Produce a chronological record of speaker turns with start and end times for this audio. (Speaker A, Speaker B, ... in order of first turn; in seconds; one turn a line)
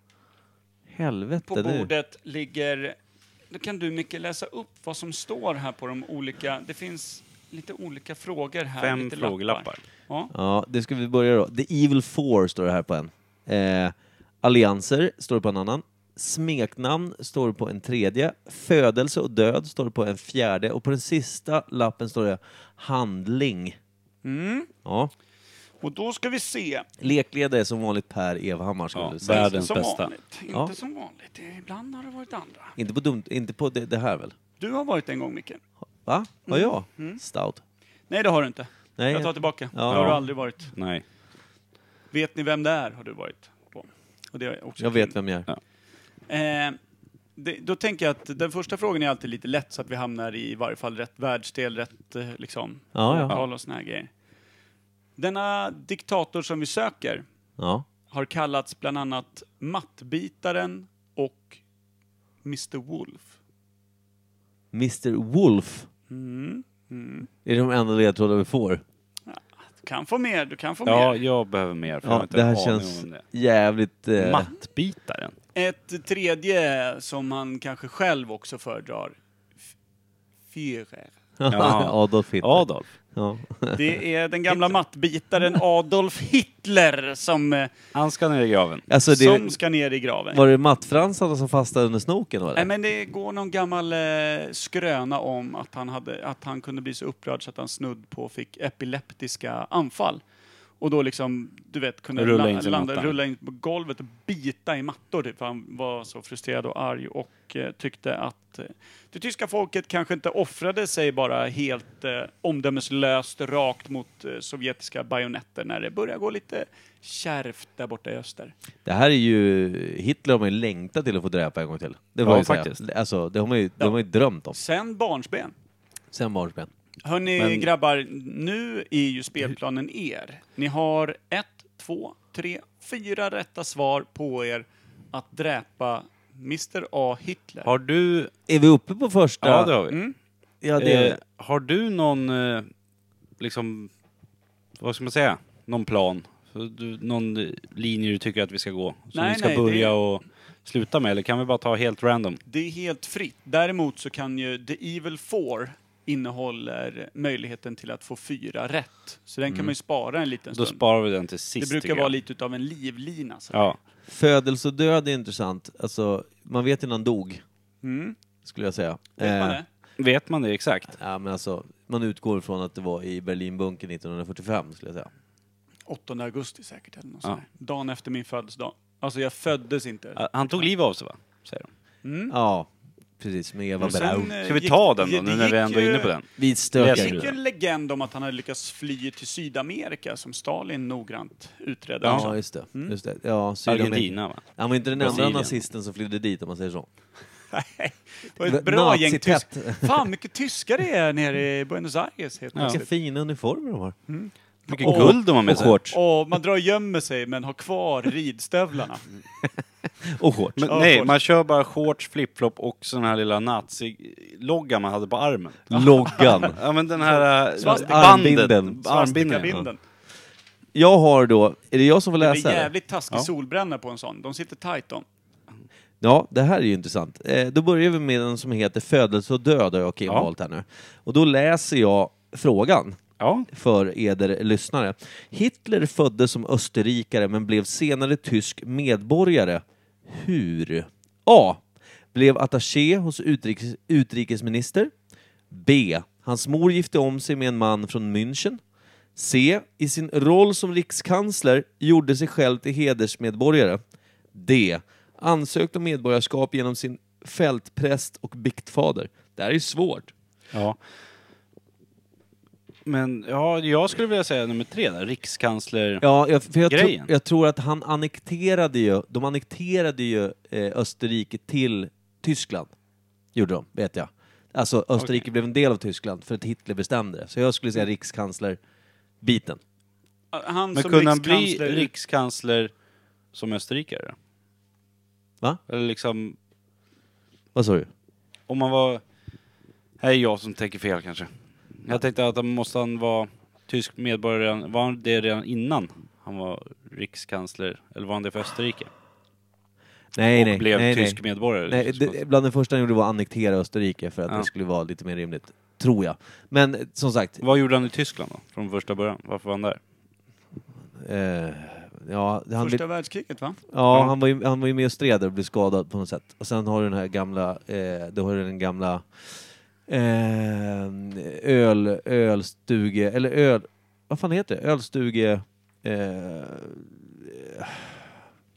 Speaker A: 0.9-1.9
Speaker B: 1.4-3.0
Speaker B: 3.5-10.3
Speaker C: 8.8-9.8
Speaker A: 10.3-23.8
Speaker B: 24.2-24.7
Speaker A: 24.9-25.1
Speaker B: 25.8-26.9
Speaker A: 27.0-29.6
Speaker C: 28.9-30.1
Speaker B: 29.3-32.7
Speaker A: 30.5-30.8
Speaker A: 32.8-34.4
Speaker B: 34.6-35.6
Speaker A: 36.0-37.6
Speaker B: 36.5-37.2
Speaker B: 38.1-40.7
Speaker A: 39.0-40.2
Speaker C: 39.9-41.0
Speaker B: 42.1-45.2
Speaker A: 44.8-45.5
Speaker B: 46.3-46.8
Speaker B: 47.4-54.1
Speaker A: 52.9-53.4
Speaker B: 55.2-57.2
Speaker A: 57.6-57.9
Speaker B: 58.1-61.6
Speaker B: 62.4-63.3
Speaker A: 64.7-65.9
Speaker B: 66.1-67.3
Speaker A: 67.5-68.8
Speaker B: 69.3-71.2
Speaker C: 70.9-73.2
Speaker A: 72.0-74.5
Speaker C: 74.2-75.4
Speaker B: 75.5-79.2
Speaker B: 80.5-81.2
Speaker A: 81.4-83.9
Speaker C: 81.5-82.9
Speaker B: 83.7-87.7
Speaker C: 87.9-88.8
Speaker A: 88.9-89.5
Speaker B: 89.1-90.4
Speaker A: 90.3-92.7
Speaker B: 92.5-100.2
Speaker B: 100.8-118.5
Speaker C: 102.2-103.2
Speaker A: 118.8-124.6
Speaker C: 122.2-122.8
Speaker B: 124.5-125.5
Speaker A: 126.1-126.7
Speaker B: 127.0-137.7
Speaker C: 127.4-127.7
Speaker C: 137.7-138.3
Speaker A: 138.5-139.7
Speaker C: 139.4-140.0
Speaker B: 139.9-140.2
Speaker A: 140.6-141.2
Speaker C: 140.8-142.7
Speaker C: 143.4-143.9
Speaker C: 144.8-152.4
Speaker B: 149.1-149.9
Speaker B: 152.5-160.8
Speaker A: 159.5-159.7
Speaker C: 160.5-162.1
Speaker B: 161.6-163.8
Speaker A: 164.1-167.4
Speaker B: 167.8-168.2
Speaker A: 168.4-169.6
Speaker B: 169.2-169.7
Speaker C: 170.0-171.0
Speaker A: 170.9-175.1
Speaker B: 175.9-180.7
Speaker C: 180.2-181.7
Speaker B: 182.0-182.3
Speaker A: 182.3-184.4
Speaker B: 183.8-186.1
Speaker C: 184.4-186.3
Speaker A: 186.4-187.2
Speaker C: 186.8-187.4
Speaker B: 186.9-193.0
Speaker C: 192.0-192.3
Speaker A: 192.1-196.9
Speaker C: 193.7-195.6
Speaker B: 197.5-202.9
Speaker A: 198.5-200.1
Speaker A: 202.7-204.0
Speaker B: 204.1-209.1
Speaker C: 204.7-206.0
Speaker A: 204.8-205.8
Speaker A: 210.0-210.7
Speaker C: 210.6-219.7
Speaker B: 210.7-211.2
Speaker A: 215.7-216.6
Speaker B: 216.1-216.5
Speaker B: 217.1-218.3
Speaker A: 217.6-218.9
Speaker B: 218.8-219.8
Speaker A: 220.7-222.7
Speaker B: 222.2-225.1
Speaker A: 226.0-241.6
Speaker C: 233.2-233.5
Speaker A: 242.1-244.9
Speaker A: 245.5-248.6
Speaker A: 249.2-253.8
Speaker A: 254.3-260.1
Speaker C: 262.9-266.1
Speaker A: 266.0-272.7
Speaker C: 266.7-267.1
Speaker A: 273.4-278.6
Speaker C: 275.0-275.2
Speaker A: 279.2-279.6
Speaker B: 280.3-281.9
Speaker C: 280.8-282.7
Speaker C: 283.3-284.2
Speaker C: 285.7-286.4
Speaker A: 287.6-287.9
Speaker C: 288.5-289.0
Speaker C: 290.0-291.3
Speaker C: 291.8-298.9
Speaker A: 300.1-307.4
Speaker C: 300.3-302.2
Speaker C: 307.4-309.8
Speaker A: 310.9-312.8
Speaker B: 312.6-313.6
Speaker A: 313.7-328.1